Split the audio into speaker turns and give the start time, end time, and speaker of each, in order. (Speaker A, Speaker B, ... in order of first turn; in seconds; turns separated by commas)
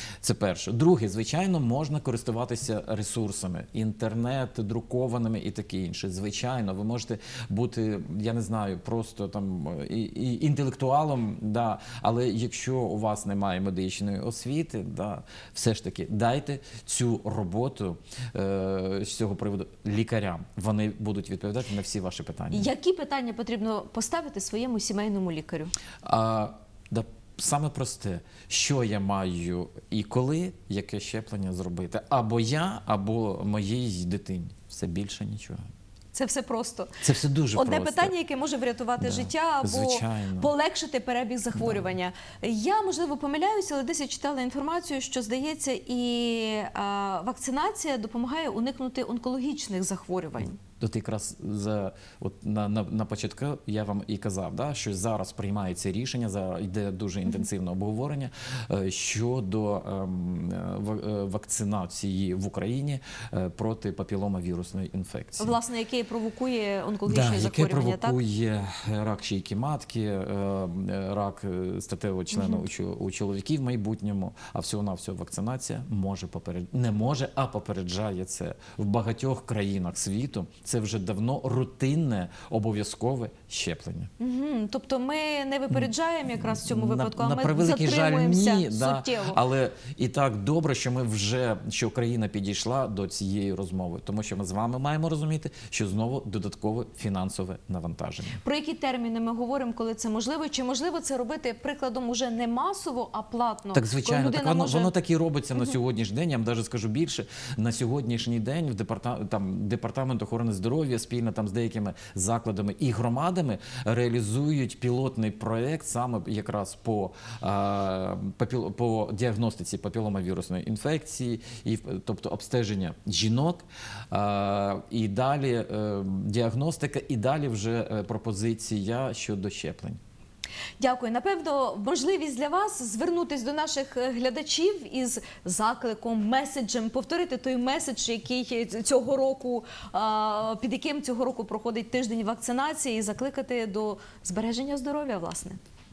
Speaker A: 0.2-22.7, Speaker B: 22.5-25.7, Speaker A: 26.0-35.7, Speaker B: 36.1-37.0, Speaker A: 37.0-38.1, Speaker B: 37.5-50.6, Speaker A: 39.0-40.5, Speaker A: 41.5-41.9, Speaker A: 50.8-65.5, Speaker B: 65.4-68.2, Speaker A: 67.0-84.1, Speaker B: 72.3-72.6, Speaker B: 84.2-89.4, Speaker A: 86.4-98.4, Speaker B: 98.4-104.9, Speaker A: 103.7-130.0, Speaker B: 130.8-145.6